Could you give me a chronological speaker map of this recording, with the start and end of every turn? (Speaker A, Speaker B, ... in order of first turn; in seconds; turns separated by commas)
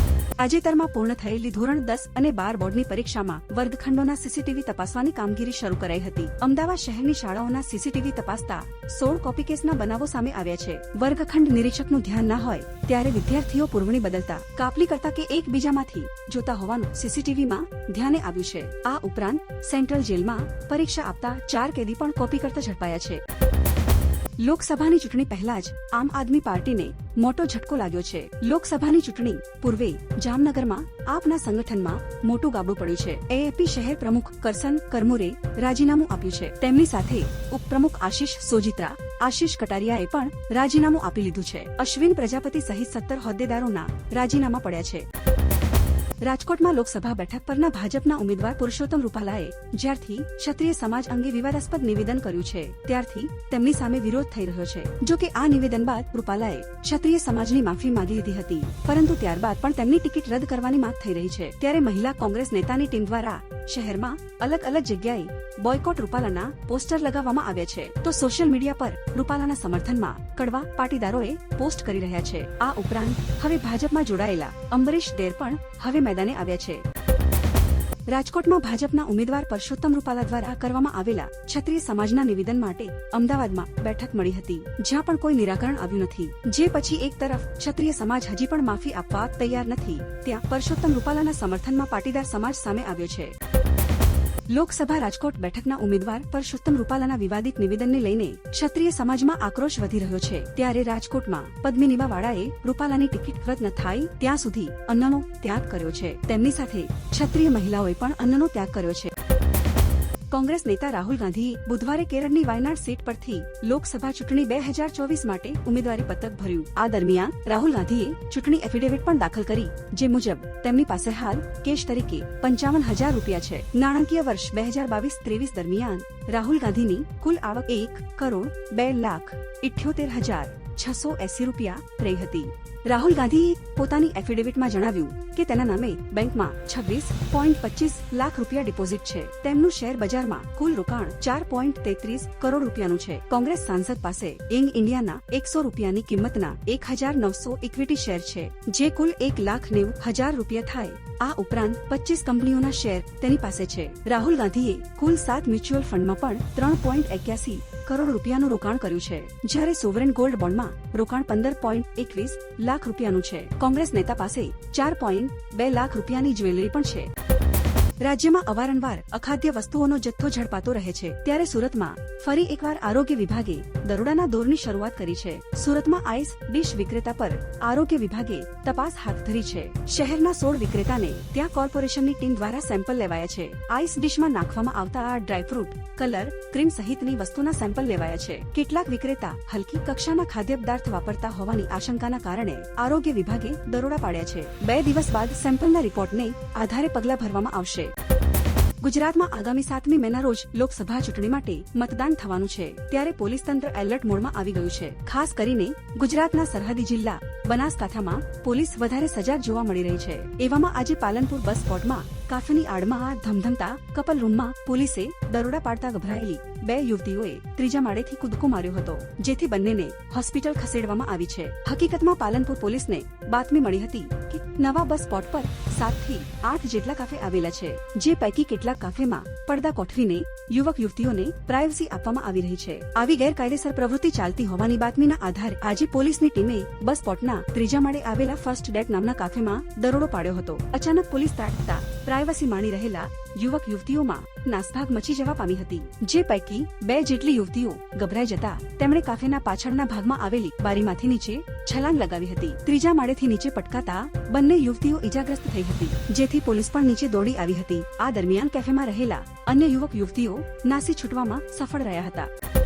Speaker A: 0.4-23.2, Speaker A: 24.4-45.1, Speaker A: 46.2-76.8, Speaker A: 78.1-93.3, Speaker A: 94.5-109.1, Speaker A: 110.3-167.1, Speaker A: 168.0-197.9, Speaker A: 198.8-262.3